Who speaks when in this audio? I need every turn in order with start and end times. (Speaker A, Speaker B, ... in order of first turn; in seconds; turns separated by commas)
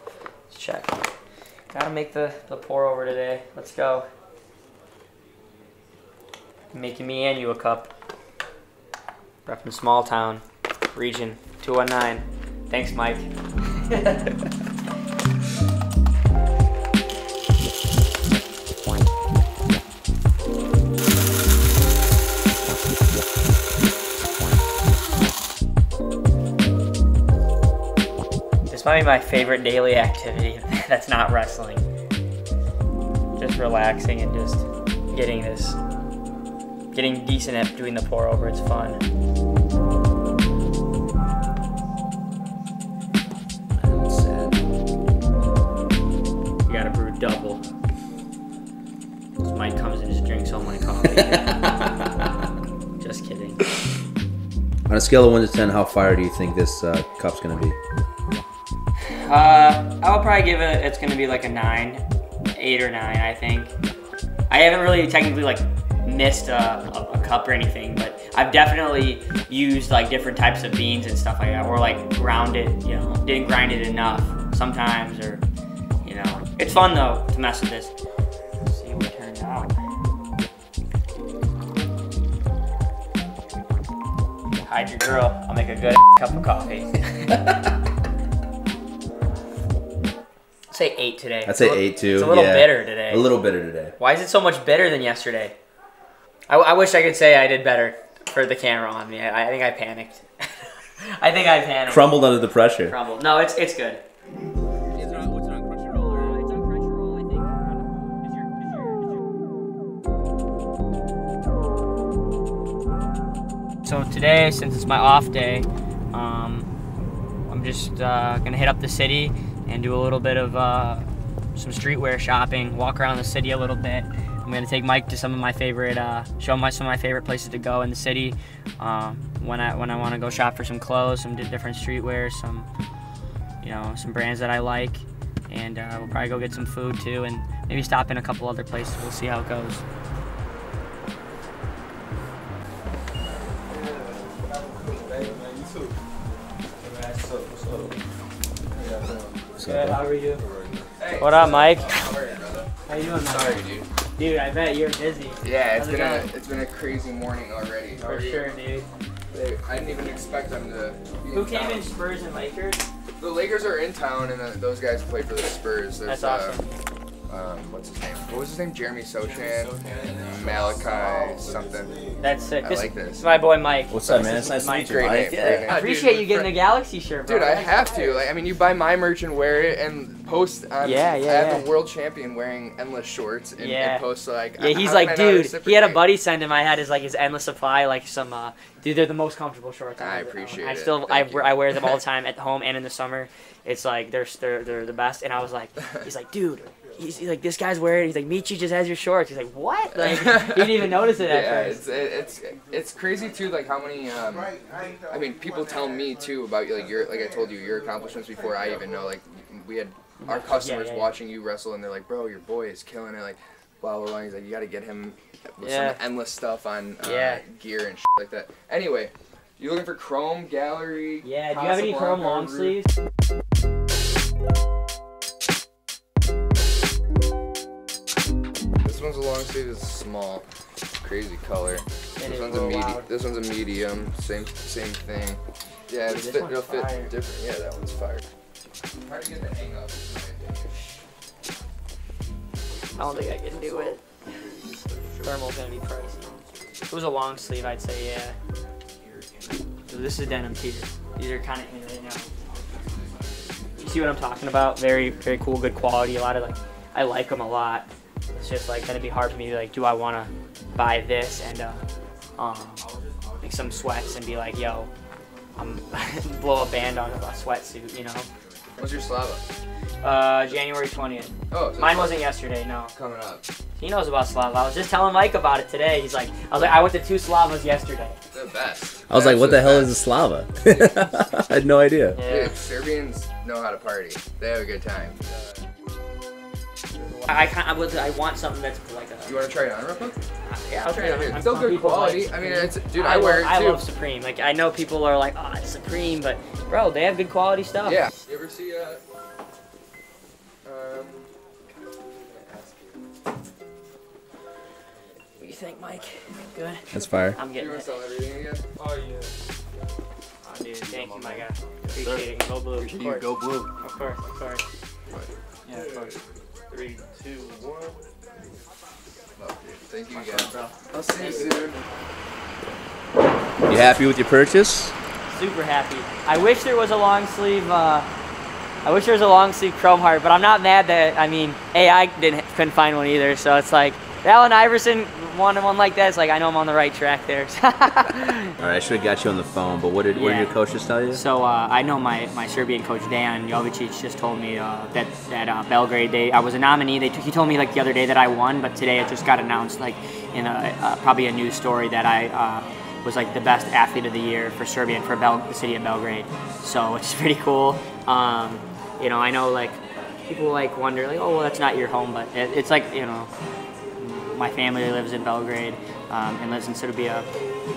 Speaker A: 0.5-1.0, Speaker A: 1.7-4.1, Speaker A: 6.7-7.9, Speaker A: 9.4-13.3, Speaker A: 13.8-14.3, Speaker A: 28.7-31.8, Speaker A: 33.4-35.8, Speaker A: 36.9-39.0, Speaker B: 43.8-44.5, Speaker A: 46.7-47.6, Speaker A: 49.4-51.8, Speaker A: 53.0-53.6, Speaker B: 54.9-57.8, Speaker A: 59.2-62.0, Speaker A: 62.5-63.7, Speaker A: 64.5-75.4, Speaker A: 76.0-77.9, Speaker A: 78.7-79.8, Speaker A: 84.6-87.4, Speaker A: 90.7-93.2, Speaker B: 91.4-93.9, Speaker A: 94.0-95.5, Speaker A: 96.5-102.2, Speaker B: 101.9-102.9, Speaker A: 102.8-104.0, Speaker C: 105.2-105.7, Speaker A: 105.8-109.2, Speaker A: 113.8-116.7, Speaker A: 117.5-132.7, Speaker A: 133.6-139.8, Speaker D: 144.9-145.4, Speaker B: 147.5-147.8, Speaker D: 148.8-149.3, Speaker B: 149.6-150.0, Speaker A: 149.6-150.4, Speaker D: 150.9-152.7, Speaker A: 151.2-151.9, Speaker A: 152.8-156.3, Speaker D: 153.2-153.9, Speaker D: 155.4-158.5, Speaker A: 158.0-158.9, Speaker D: 159.3-161.9, Speaker A: 161.3-162.8, Speaker D: 163.2-166.6, Speaker A: 166.1-166.7, Speaker D: 167.3-171.9, Speaker C: 169.2-171.0, Speaker A: 172.2-178.3, Speaker D: 172.6-173.2, Speaker B: 173.9-175.8, Speaker D: 174.8-176.5, Speaker D: 177.2-186.0, Speaker A: 180.8-181.7, Speaker A: 183.6-201.8, Speaker D: 190.0-191.9, Speaker D: 199.9-204.5, Speaker D: 205.1-222.8, Speaker A: 210.2-211.1, Speaker A: 215.6-216.0, Speaker A: 217.0-217.4, Speaker A: 221.2-222.9, Speaker D: 228.8-230.4, Speaker D: 231.0-238.2, Speaker A: 232.2-233.1, Speaker A: 236.0-237.1, Speaker D: 239.0-240.9, Speaker A: 242.9-244.0, Speaker D: 243.0-244.0, Speaker A: 245.2-246.2, Speaker A: 246.9-248.3, Speaker A: 249.9-252.3, Speaker A: 253.8-261.8, Speaker A: 262.4-262.9, Speaker A: 263.4-264.9, Speaker A: 265.6-268.3, Speaker D: 268.7-269.4, Speaker A: 270.0-272.9, Speaker D: 271.5-272.2, Speaker D: 272.9-273.4, Speaker A: 273.8-278.2, Speaker D: 278.3-279.9, Speaker B: 279.1-282.2, Speaker A: 282.1-282.5, Speaker D: 282.2-285.2, Speaker A: 287.2-289.4, Speaker D: 289.2-290.2, Speaker A: 290.4-298.1, Speaker D: 290.9-293.8, Speaker D: 297.8-299.0, Speaker D: 300.6-301.3, Speaker D: 302.0-302.9, Speaker A: 305.4-306.8, Speaker B: 306.9-307.4, Speaker A: 307.3-307.9, Speaker D: 307.5-308.6, Speaker C: 308.8-309.3, Speaker A: 310.4-313.3, Speaker C: 310.9-312.8, Speaker D: 312.8-313.6, Speaker A: 313.8-314.6, Speaker C: 315.7-316.1, Speaker C: 316.7-318.0, Speaker D: 319.4-321.8, Speaker A: 320.1-321.6, Speaker B: 323.7-324.9, Speaker A: 325.3-328.1, Speaker A: 328.8-338.6, Speaker B: 338.6-341.2, Speaker A: 340.1-340.5, Speaker A: 341.1-363.3, Speaker A: 364.0-367.3